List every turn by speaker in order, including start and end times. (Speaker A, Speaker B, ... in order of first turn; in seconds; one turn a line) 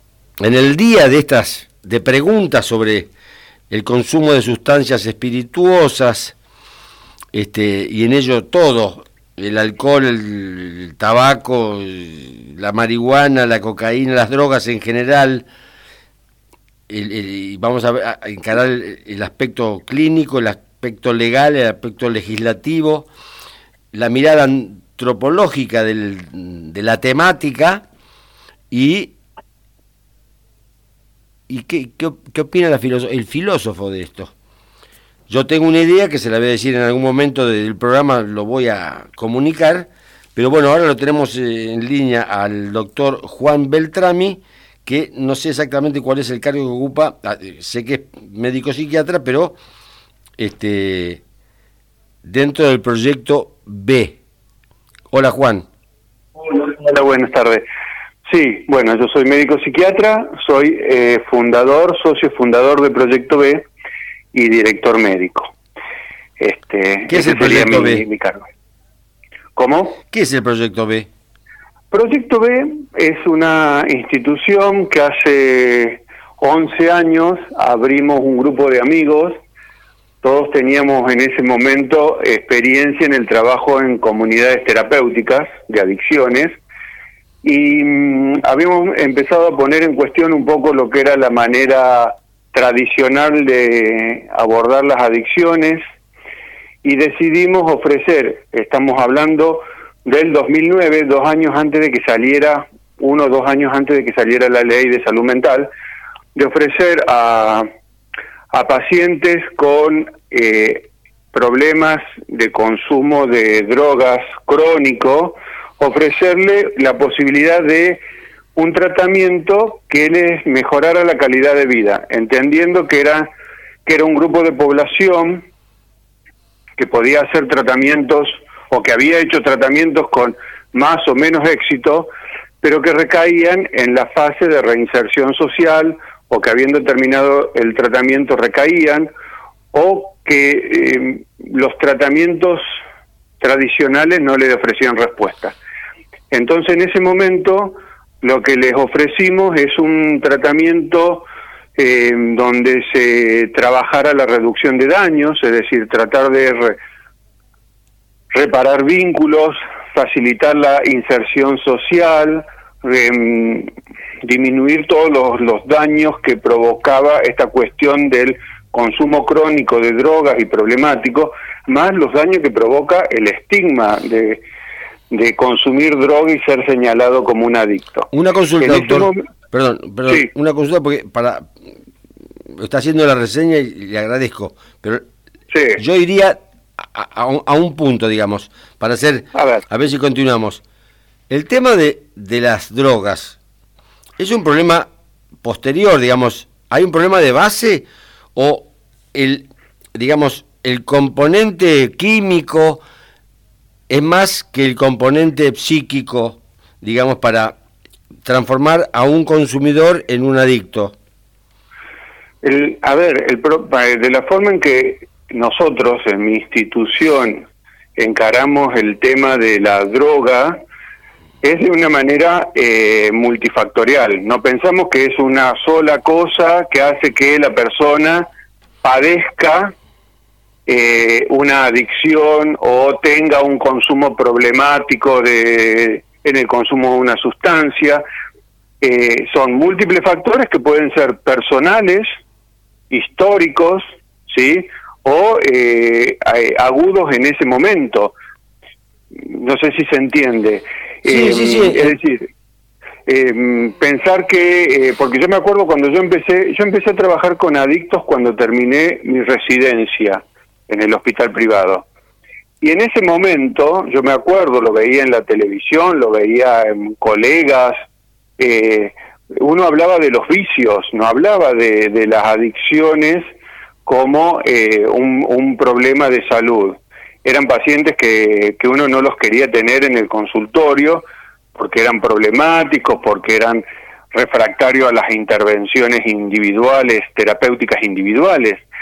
Speaker A: 0.4-3.1
Speaker A: 3.7-6.3
Speaker A: 7.3-15.4
Speaker A: 16.9-23.1
Speaker A: 23.9-27.8
Speaker A: 28.7-29.1
Speaker A: 31.5-34.3
Speaker A: 35.3-49.5
Speaker A: 50.4-51.2
Speaker A: 52.2-54.2
Speaker A: 55.1-55.7
Speaker B: 56.4-57.6
Speaker B: 58.2-63.7
Speaker B: 64.3-65.5
Speaker B: 66.4-68.4
Speaker A: 67.1-68.0
Speaker B: 69.5-70.0
Speaker A: 70.1-71.1
Speaker B: 71.9-79.4
Speaker B: 80.2-86.5
Speaker B: 87.4-95.8
Speaker B: 96.8-105.7
Speaker B: 106.3-107.7
Speaker B: 108.5-118.0
Speaker B: 118.5-123.3
Speaker B: 123.8-125.5
Speaker B: 126.8-132.1
Speaker B: 132.6-139.1
Speaker B: 139.7-142.6
Speaker B: 143.4-145.6
Speaker B: 146.3-156.8
Speaker B: 158.3-163.7
Speaker B: 164.2-174.4
Speaker B: 175.1-178.1
Speaker A: 178.1-181.5
Speaker B: 178.6-179.2
Speaker A: 182.5-185.0
Speaker B: 185.5-185.8
Speaker A: 185.8-190.6
Speaker B: 189.3-189.6
Speaker A: 191.3-193.4
Speaker A: 194.2-194.9
Speaker A: 195.4-197.8
Speaker A: 198.3-202.8
Speaker A: 203.9-207.6
Speaker A: 208.2-210.9
Speaker B: 212.4-220.6
Speaker B: 221.4-228.3
Speaker B: 228.8-229.7
Speaker B: 230.7-238.0
Speaker B: 238.8-242.1
Speaker B: 242.9-248.1
Speaker B: 249.1-252.3
Speaker A: 251.0-251.9
Speaker B: 253.1-261.9
Speaker B: 262.6-267.8
Speaker B: 268.4-273.2
Speaker B: 273.8-281.0
Speaker B: 281.5-283.6
Speaker B: 284.1-288.6